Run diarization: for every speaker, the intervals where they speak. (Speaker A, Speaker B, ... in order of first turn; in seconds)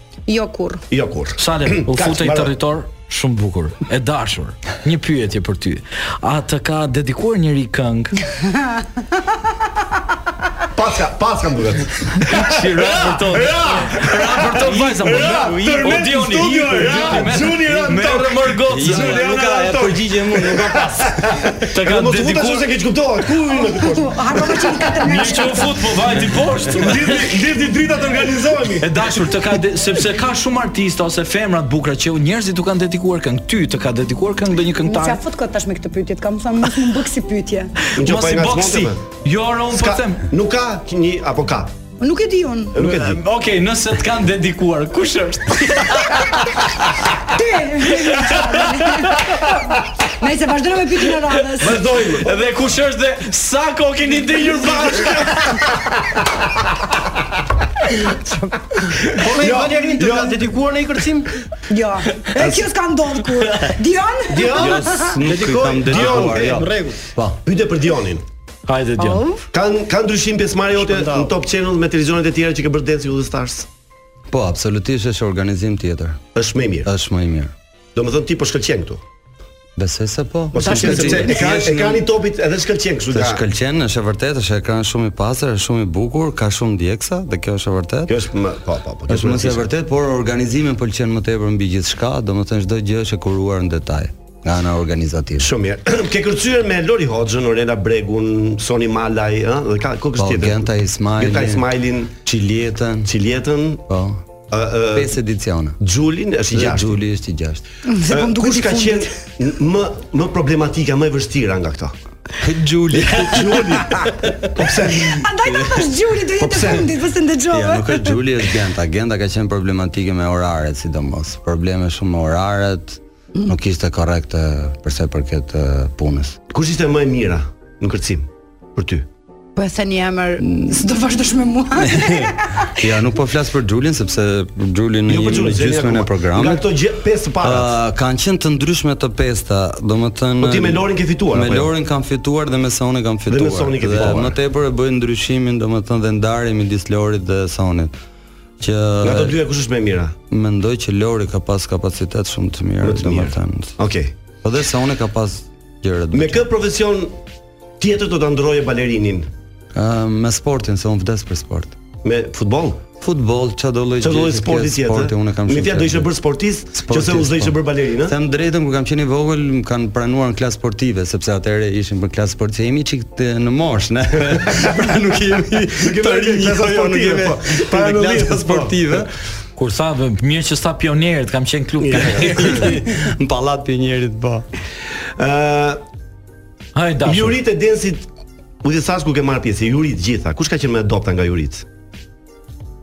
Speaker A: 0.3-0.8, 8.4-8.8, 23.5-25.8, 34.8-37.7, 42.0-42.8, 47.3-51.9, 58.1-58.9, 61.7-65.2, 69.0-69.5, 80.6-81.5, 107.9-109.1, 115.1-118.1, 129.6-132.8
Speaker B: 0.9-2.5, 10.7-24.9, 26.7-29.1, 37.9-39.0, 39.7-41.7, 42.7-43.2, 51.6-52.4, 59.2-60.5, 62.4-62.6, 65.8-66.7, 67.4-68.2, 69.5-73.7, 76.3-76.9, 77.9-79.0, 80.5-83.4, 88.1-89.7, 95.4-102.2, 103.0-103.8, 104.5-105.2, 105.8-107.0, 108.1-111.9, 112.9-115.3, 116.4-117.0, 126.5-129.1, 135.1-137.8, 140.4-141.7, 143.3-144.4, 149.0-150.1, 152.8-154.1, 156.1-157.2, 157.8-159.3, 162.0-162.8, 164.0-168.2, 174.3-174.7, 175.7-179.1, 181.8-182.8, 185.2-185.8, 187.0-188.1, 188.6-191.7
Speaker C: 1.4-8.2, 12.2-19.4, 21.7-22.7, 25.0-27.2, 28.8-35.2, 38.0-40.2, 42.8-46.6, 48.0-48.5, 52.2-55.6, 68.7-69.2, 179.6-182.8, 186.7-187.4
Speaker D: 14.7-21.2, 64.5-67.4, 74.3-76.2, 76.8-77.5, 79.8-82.1, 83.1-88.1, 89.1-95.5, 100.2-101.7, 102.2-103.1, 103.9-104.2, 104.9-105.8, 106.5-107.6, 112.4-113.8, 115.5-115.8, 117.5-126.4, 130.4-130.8, 131.8-136.7, 137.4-147.9, 148.6-149.4, 150.3-153.8, 154.4-156.5, 159.7-161.8, 163.0-166.1, 166.7-179.1, 182.2-184.4
Speaker E: 59.1-61.3, 64.3-67.0, 70.8-71.3